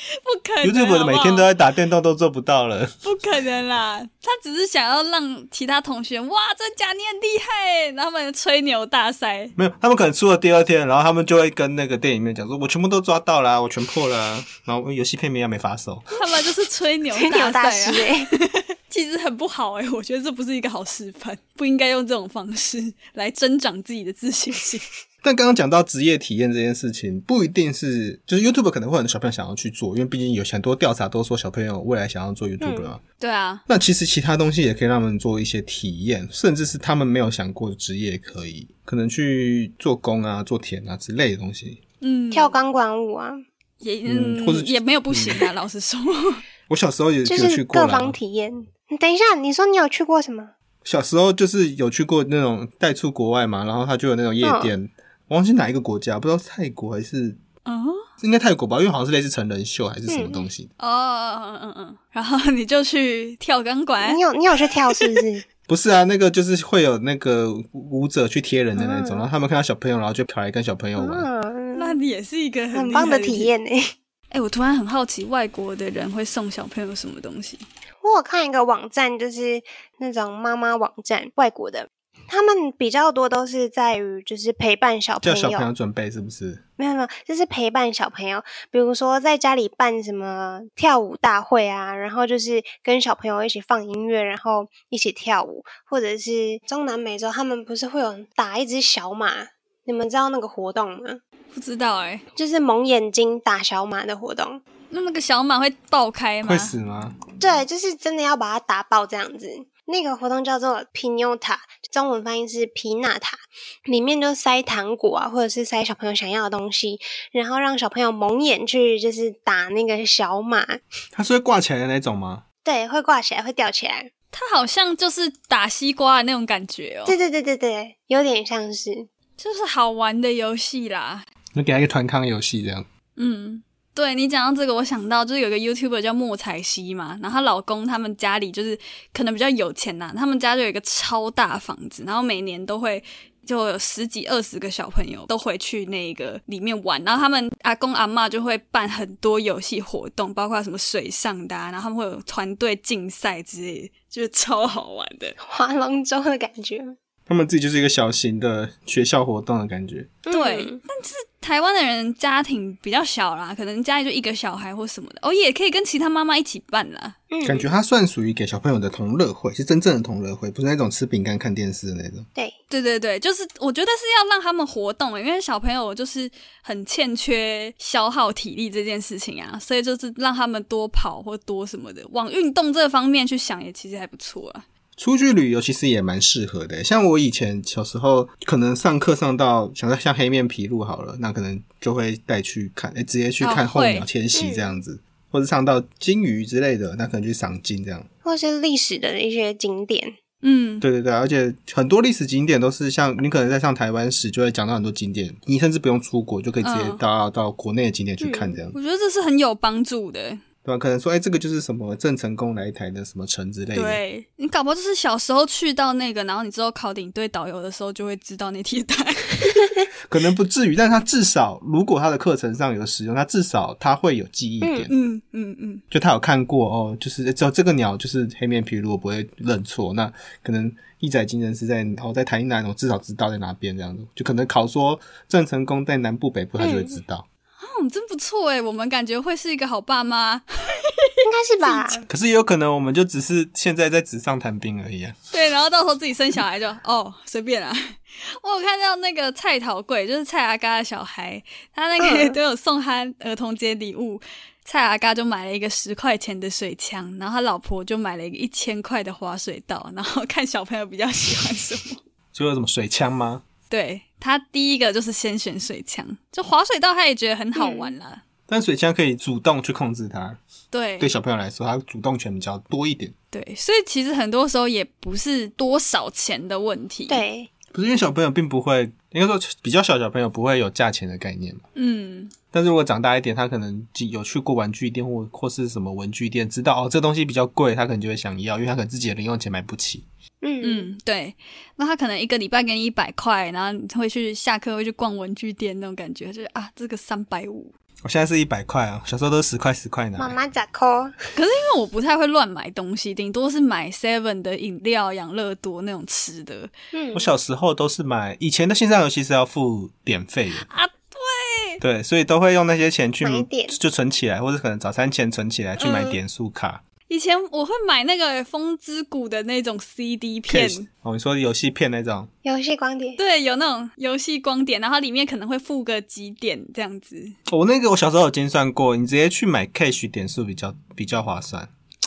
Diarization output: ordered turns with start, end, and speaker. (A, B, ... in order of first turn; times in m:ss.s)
0:00.1-0:01.5 A
0:00.6-0:02.9 B
0:03.0-0:09.5 A
0:09.6-0:16.1 B
0:16.1-0:24.8 A
0:17.2-0:18.3 C
0:25.2-0:33.0 B
0:32.6-0:32.9 C
0:33.2-0:33.6 A
0:33.7-0:41.8 B
0:42.0-0:42.6 A
0:42.3-0:43.4 C
0:43.8-0:46.4 A
0:44.1-0:45.4 B
0:46.7-0:48.2 B
0:47.2-0:50.5 C
0:50.8-0:57.4 B
0:54.4-0:54.7 C
0:57.6-0:58.0 A
0:58.2-1:00.7 B
1:00.1-1:00.5 C
1:00.8-1:04.2 A
1:04.0-1:05.4 C
1:05.7-1:11.3 B
1:08.8-1:09.3 C
1:11.0-1:12.0 C
1:11.7-1:13.5 A
1:12.7-1:13.9 C
1:14.3-1:17.6 A
1:18.0-1:25.7 C
1:25.2-1:26.6 B
1:26.8-1:41.2 C
1:41.5-1:42.2 A
1:42.4-1:44.6 C
1:44.9-1:46.7 A
1:46.4-1:47.2 B
1:47.4-2:00.8 C
2:01.1-2:02.4 B
2:02.6-2:04.1 C
2:04.3-2:07.2 A
2:07.0-2:09.1 C
2:09.4-2:11.2 A
2:11.5-2:12.9 B
2:13.2-2:35.4 A
2:35.4-2:36.9 C
2:37.3-2:40.1 B
2:40.2-2:40.8 C
2:40.3-2:47.2 A
2:47.3-2:47.7 C
2:47.4-2:52.3 B
2:52.7-3:04.6 A
3:05.0-3:18.1 B
3:13.4-3:14.1 A
3:14.3-3:14.8 C
3:18.2-3:20.1 C
3:20.4-3:20.8 A
3:20.8-3:28.8 B
3:26.6-3:27.0 A
3:28.2-3:28.6 C
3:28.7-3:30.4 A
3:30.6-3:34.0 B
3:33.7-3:39.7 A
3:40.1-3:44.9 B
3:44.6-3:44.9 C
3:44.9-3:45.8 A
3:45.9-3:57.2 B
3:56.6-3:56.9 C
3:57.6-4:01.1 A
4:01.2-4:02.0 C
4:01.6-4:02.0 A
4:02.1-4:05.2 B
4:05.3-4:22.0 A
4:12.0-4:12.4 C
4:22.3-4:23.4 B
4:23.7-4:28.2 A
4:27.6-4:27.9 C
4:28.5-4:30.4 B
4:30.7-4:31.1 A
4:31.0-4:33.1 B
4:33.3-4:37.2 A
4:37.1-4:37.5 C
4:37.7-4:41.6 B
4:41.8-4:42.3 A
4:42.5-4:50.0 B
4:50.4-4:50.9 C
4:50.6-4:57.7 A
4:58.0-5:00.4 B
5:00.2-5:01.1 C
5:01.3-5:06.7 A
5:06.9-5:07.3 C
5:07.1-5:10.6 B
5:10.6-5:11.8 A
5:11.8-5:16.8 B
5:13.2-5:13.8 C
5:15.8-5:16.2 A
5:17.1-5:20.9 A
5:20.5-5:22.3 B
5:22.4-5:23.2 C
5:23.2-5:27.4 A
5:27.5-5:31.7 B